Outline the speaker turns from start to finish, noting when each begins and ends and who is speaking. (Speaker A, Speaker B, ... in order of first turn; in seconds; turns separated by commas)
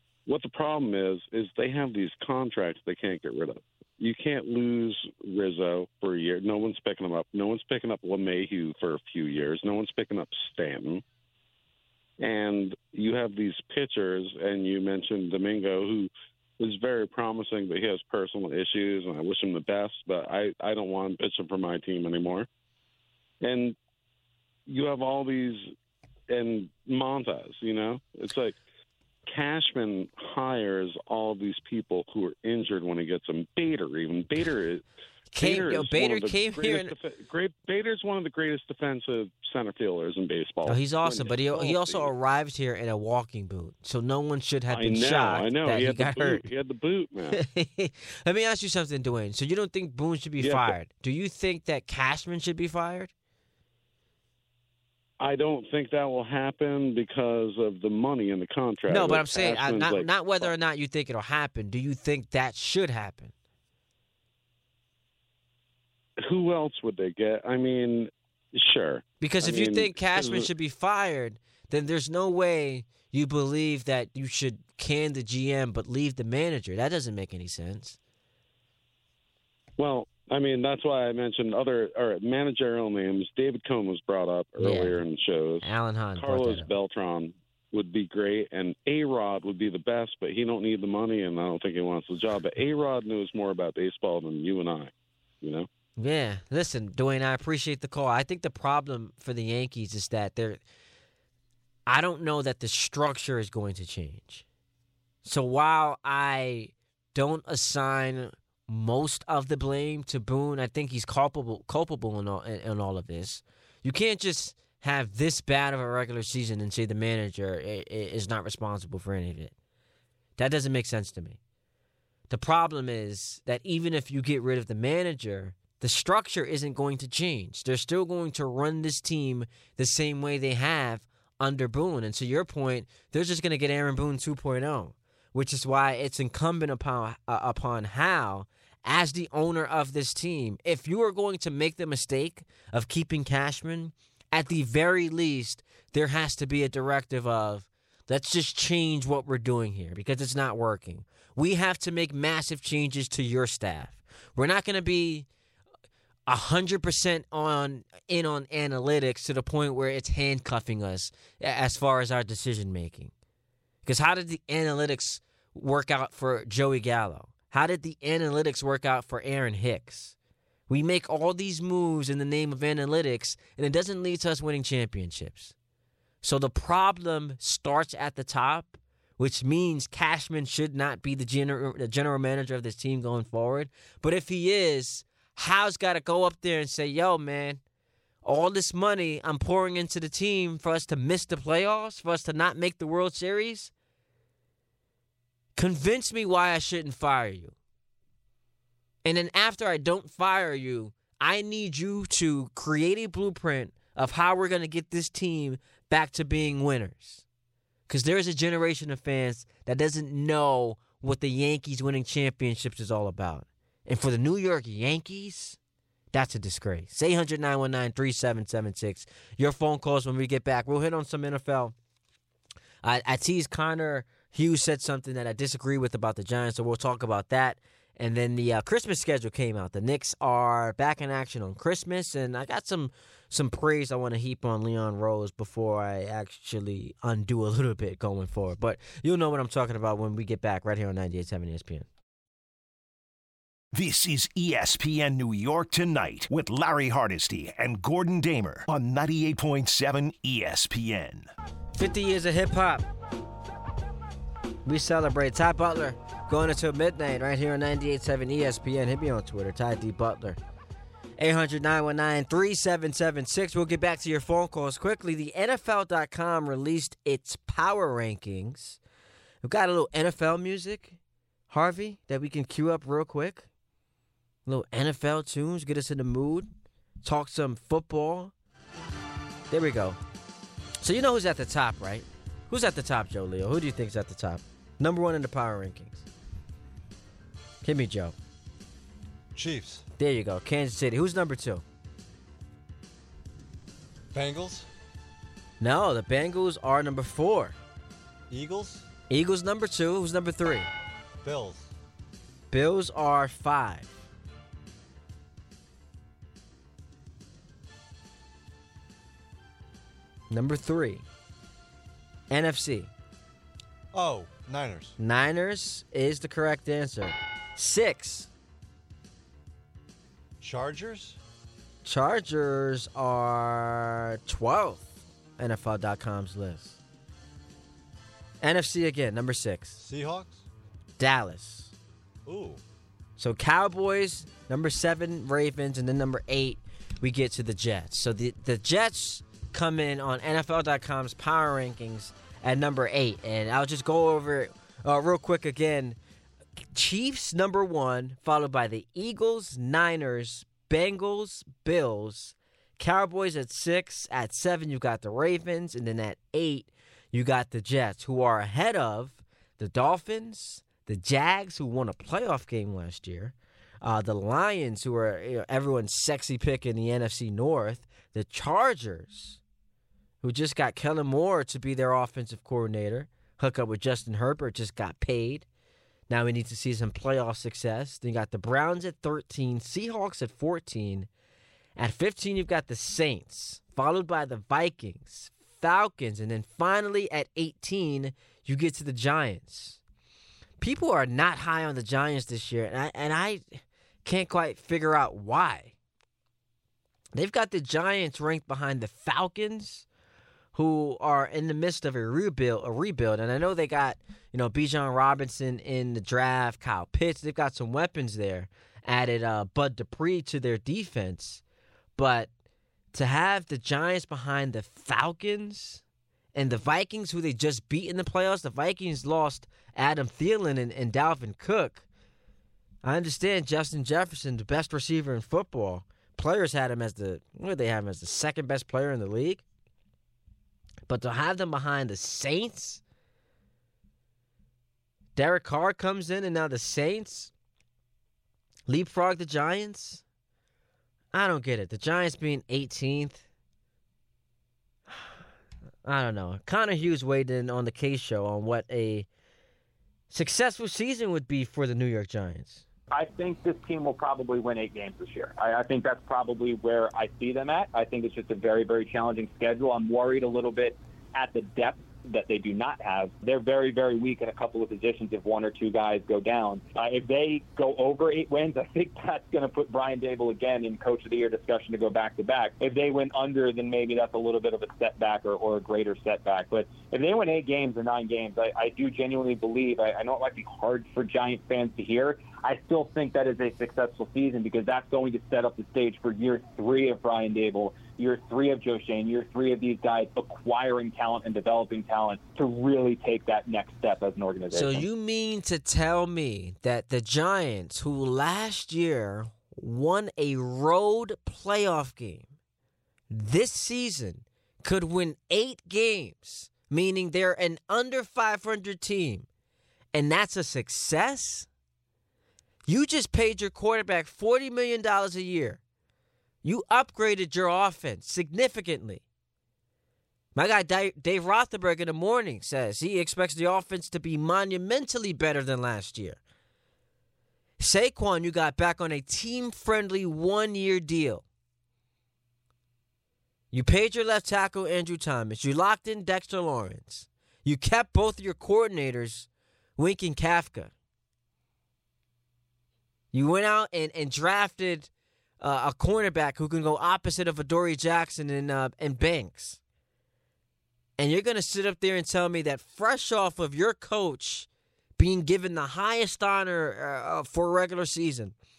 Speaker A: 0.2-11.0, Speaker A: 12.2-22.5, Speaker A: 23.4-23.8, Speaker A: 24.7-25.7, Speaker A: 26.3-28.6, Speaker A: 29.3-34.8, Speaker B: 35.3-36.9, Speaker A: 35.4-42.1, Speaker B: 40.6-46.4, Speaker A: 44.7-47.4, Speaker B: 47.3-53.1, Speaker A: 50.4-50.7, Speaker A: 55.2-60.5, Speaker B: 58.9-63.3, Speaker A: 66.2-70.5, Speaker B: 69.2-78.0, Speaker A: 79.8-95.7, Speaker B: 84.6-85.0, Speaker B: 85.6-86.7, Speaker B: 96.0-100.6, Speaker B: 101.9-104.4, Speaker B: 105.2-119.5, Speaker B: 120.4-121.4, Speaker B: 122.3-155.3, Speaker B: 156.3-163.1, Speaker B: 163.8-170.1, Speaker B: 170.7-175.5, Speaker B: 176.2-187.6, Speaker B: 188.2-193.7, Speaker B: 195.6-197.5, Speaker B: 199.0-207.2, Speaker B: 207.9-215.6, Speaker B: 216.1-221.7, Speaker B: 222.8-241.9, Speaker C: 243.7-251.3, Speaker B: 251.7-252.8, Speaker B: 254.6-260.4, Speaker B: 261.2-268.8, Speaker B: 269.4-271.0, Speaker B: 271.5-273.5, Speaker B: 274.4-276.5, Speaker B: 277.0-278.3, Speaker B: 279.5-280.0, Speaker B: 280.8-286.1, Speaker B: 287.6-288.1, Speaker D: 289.3-289.9, Speaker B: 290.0-291.6, Speaker D: 294.1-294.7, Speaker B: 295.6-297.6, Speaker D: 298.3-298.9, Speaker B: 299.1-300.7, Speaker D: 301.2-301.7, Speaker B: 302.5-303.9, Speaker B: 310.3-311.0, Speaker B: 312.3-312.9, Speaker D: 313.9-314.9, Speaker B: 315.0-318.3, Speaker D: 320.4-321.2, Speaker B: 321.8-326.8, Speaker B: 328.4-329.8, Speaker D: 329.8-330.5, Speaker B: 331.0-331.7, Speaker D: 332.2-332.6, Speaker B: 333.2-346.0, Speaker B: 346.7-369.4, Speaker B: 370.2-375.4, Speaker B: 376.1-381.1, Speaker B: 381.8-389.8, Speaker B: 390.6-395.7, Speaker B: 397.1-399.9, Speaker B: 400.5-411.4, Speaker B: 412.0-412.3, Speaker B: 412.9-415.8, Speaker B: 416.3-421.9, Speaker B: 422.8-429.4, Speaker B: 430.9-432.8, Speaker B: 435.1-437.3, Speaker B: 438.7-440.0, Speaker B: 441.1-443.2, Speaker B: 445.8-449.1, Speaker B: 450.1-452.6, Speaker E: 452.9-494.9, Speaker B: 494.5-502.3, Speaker B: 503.1-509.3, Speaker B: 509.9-511.5, Speaker B: 512.6-515.6, Speaker B: 516.4-519.0, Speaker B: 520.3-526.2, Speaker B: 527.6-531.2, Speaker B: 533.5-540.7, Speaker B: 543.1-549.6, Speaker B: 551.0-558.3